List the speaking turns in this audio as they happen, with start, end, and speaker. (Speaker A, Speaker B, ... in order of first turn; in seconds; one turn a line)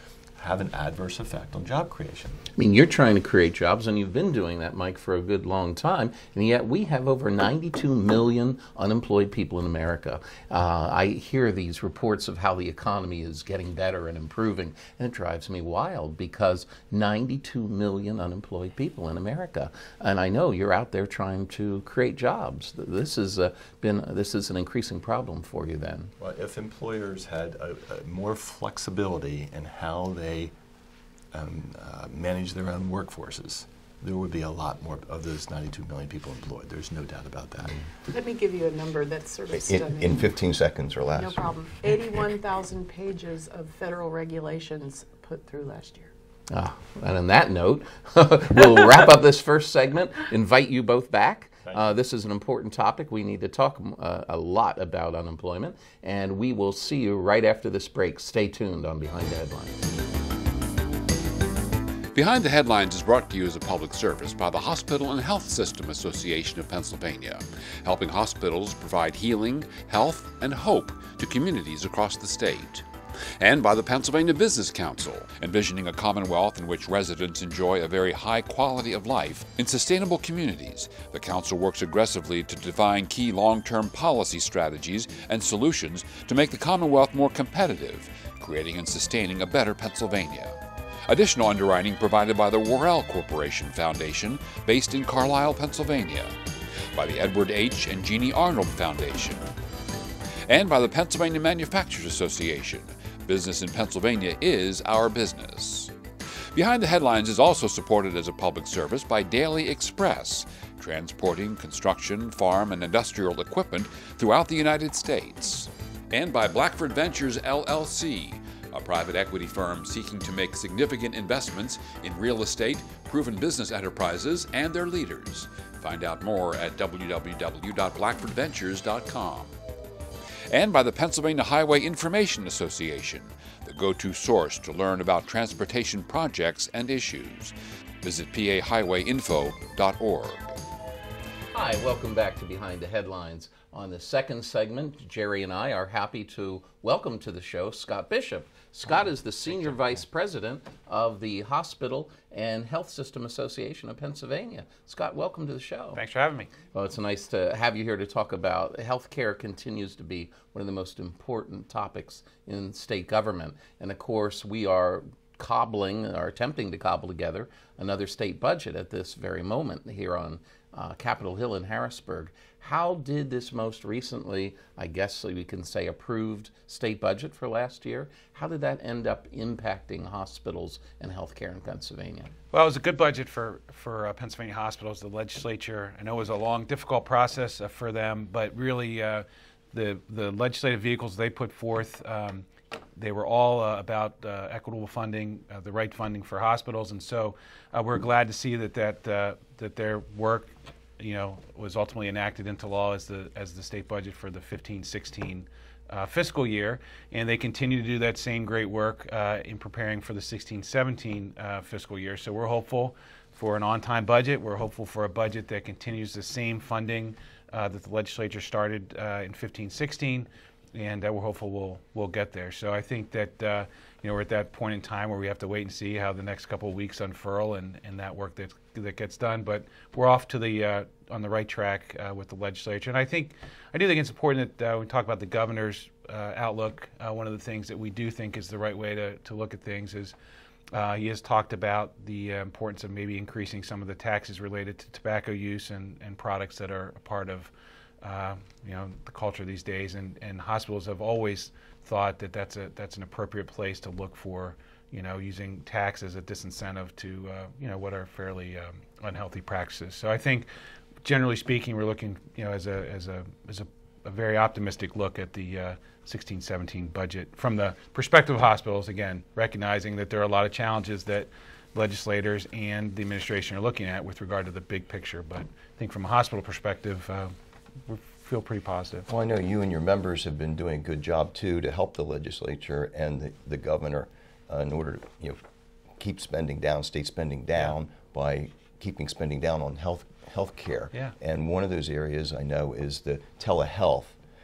Speaker A: 0.4-2.4
Speaker B: 2.5-26.1
Speaker A: 26.2-30.5
Speaker A: 31.3-37.8
Speaker C: 38.1-40.3
Speaker D: 39.5-41.5
Speaker C: 41.2-46.1
Speaker B: 46.5-59.8
Speaker A: 51.7-52.0
Speaker E: 62.1-72.8
Speaker E: 73.4-96.3
Speaker E: 96.9-99.5
Speaker E: 100.5-105.9
Speaker E: 106.5-129.5
Speaker E: 130.5-140.6
Speaker B: 141.5-156.0
Speaker F: 155.9-156.5
Speaker B: 156.7-182.3
Speaker F: 182.5-240.1
Speaker F: 240.7-247.5
Speaker F: 248.0-260.5
Speaker F: 261.0-277.3
Speaker F: 277.9-279.1
Speaker D: 279.1-285.4
Speaker D: 286.0-294.2